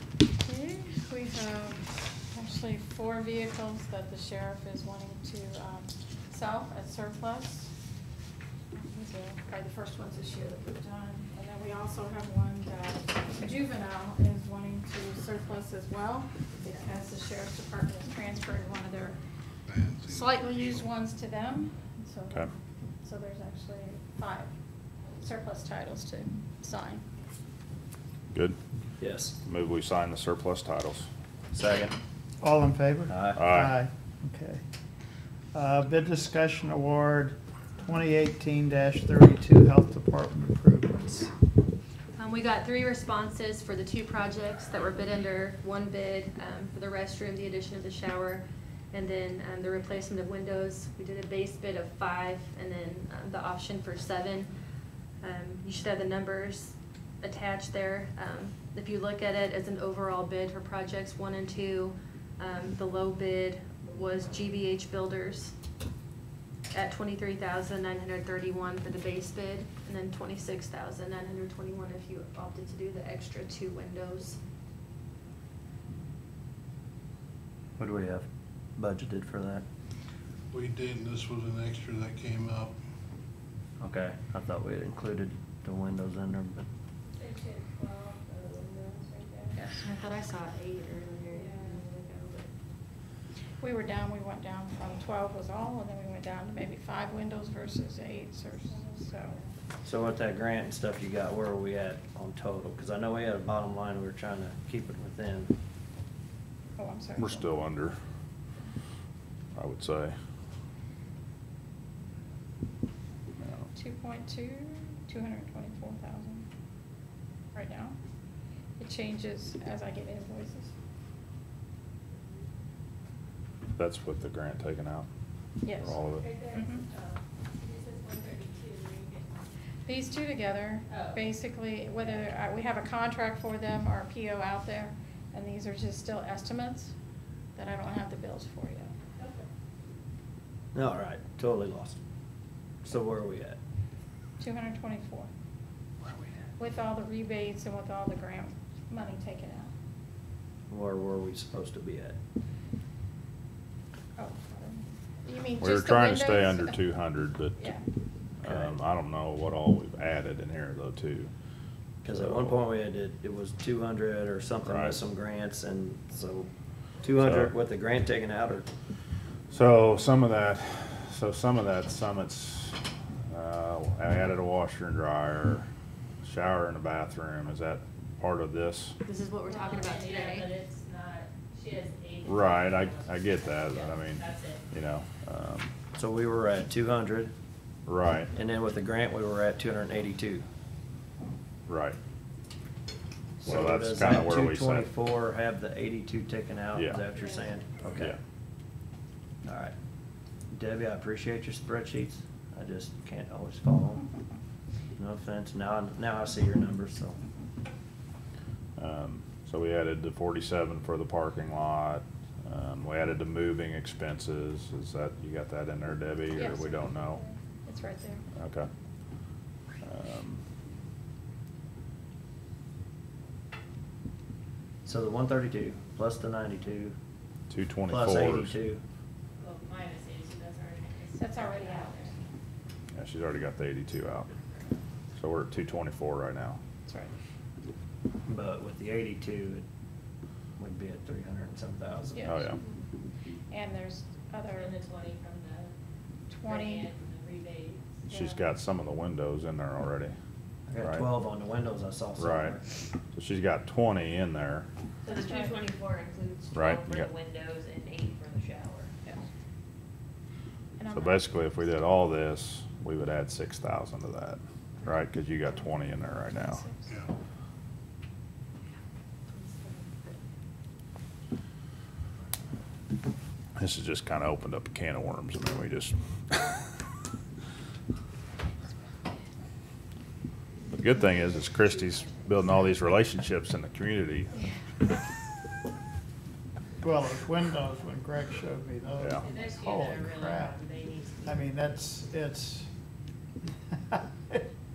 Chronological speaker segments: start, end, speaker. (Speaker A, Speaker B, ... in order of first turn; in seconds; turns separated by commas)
Speaker A: 0.4-7.7, Speaker A: 8.7-19.2, Speaker B: 19.7-20.8, Speaker A: 20.1-22.5, Speaker A: 23.0-24.5, Speaker A: 25.2-27.0, Speaker C: 29.0-29.4, Speaker D: 29.4-31.1, Speaker C: 31.5-32.0, Speaker E: 32.4-34.6, Speaker C: 33.1-33.5, Speaker D: 33.4-33.7, Speaker E: 35.5-41.3, Speaker F: 42.2-54.5, Speaker F: 55.2-65.5, Speaker F: 66.7-74.4, Speaker C: 77.8-79.7, Speaker B: 80.5-82.8, Speaker C: 83.8-86.7, Speaker G: 87.1-89.5, Speaker F: 89.5-92.5, Speaker G: 91.4-91.8, Speaker A: 93.6-99.4, Speaker C: 99.8-105.5, Speaker A: 106.8-107.6, Speaker D: 107.2-108.0, Speaker D: 109.5-110.2, Speaker D: 113.4-113.7, Speaker A: 113.7-116.5, Speaker A: 117.5-118.0, Speaker A: 118.8-120.7, Speaker D: 123.8-125.1, Speaker A: 125.6-126.8, Speaker D: 125.8-126.3, Speaker G: 126.1-129.5, Speaker A: 129.9-136.9, Speaker G: 130.9-131.3, Speaker A: 137.6-138.9, Speaker G: 139.2-139.4, Speaker C: 140.7-142.0, Speaker C: 142.8-143.6, Speaker A: 144.4-145.3, Speaker A: 146.6-149.7, Speaker C: 150.7-152.2, Speaker A: 154.2-156.9, Speaker D: 155.6-157.7, Speaker A: 157.6-157.8, Speaker D: 158.4-161.3, Speaker C: 158.4-158.8, Speaker C: 162.0-166.5, Speaker D: 162.1-162.6, Speaker D: 164.7-165.0, Speaker C: 167.0-168.7, Speaker D: 167.2-167.5, Speaker D: 169.5-172.8, Speaker D: 173.3-175.7, Speaker D: 176.2-179.0, Speaker F: 179.1-180.6, Speaker G: 179.5-184.7, Speaker D: 182.3-185.7, Speaker C: 185.9-187.3, Speaker D: 187.9-188.3, Speaker C: 188.3-190.4, Speaker D: 191.7-192.0, Speaker C: 193.4-198.2, Speaker D: 193.4-194.9, Speaker D: 196.7-197.0, Speaker C: 199.4-199.7, Speaker C: 200.5-204.1, Speaker C: 205.0-207.2, Speaker D: 208.8-217.2, Speaker A: 216.3-218.2, Speaker D: 218.4-218.7, Speaker D: 219.8-220.4, Speaker C: 224.8-227.0, Speaker D: 227.5-228.6, Speaker C: 227.9-228.8, Speaker G: 229.4-232.1, Speaker A: 231.2-232.1, Speaker D: 232.9-234.3, Speaker D: 235.2-236.6, Speaker A: 236.9-237.1, Speaker C: 238.3-239.7, Speaker C: 240.6-242.3, Speaker A: 242.1-242.5, Speaker D: 242.2-242.6, Speaker A: 243.5-244.8, Speaker G: 244.5-245.7, Speaker A: 246.3-246.9, Speaker G: 246.4-248.0, Speaker D: 248.1-250.1, Speaker A: 248.1-248.4, Speaker C: 250.7-252.6, Speaker D: 250.8-251.1, Speaker D: 252.2-252.6, Speaker D: 253.1-254.7, Speaker F: 255.1-258.9, Speaker A: 255.2-255.6, Speaker D: 256.5-257.1, Speaker A: 260.8-261.3, Speaker D: 260.9-266.7, Speaker A: 266.2-266.9, Speaker F: 269.3-270.2, Speaker D: 273.6-276.6, Speaker D: 280.7-284.3, Speaker E: 286.8-290.6, Speaker D: 289.0-289.3, Speaker G: 289.2-291.5, Speaker E: 291.2-292.7, Speaker E: 293.8-294.4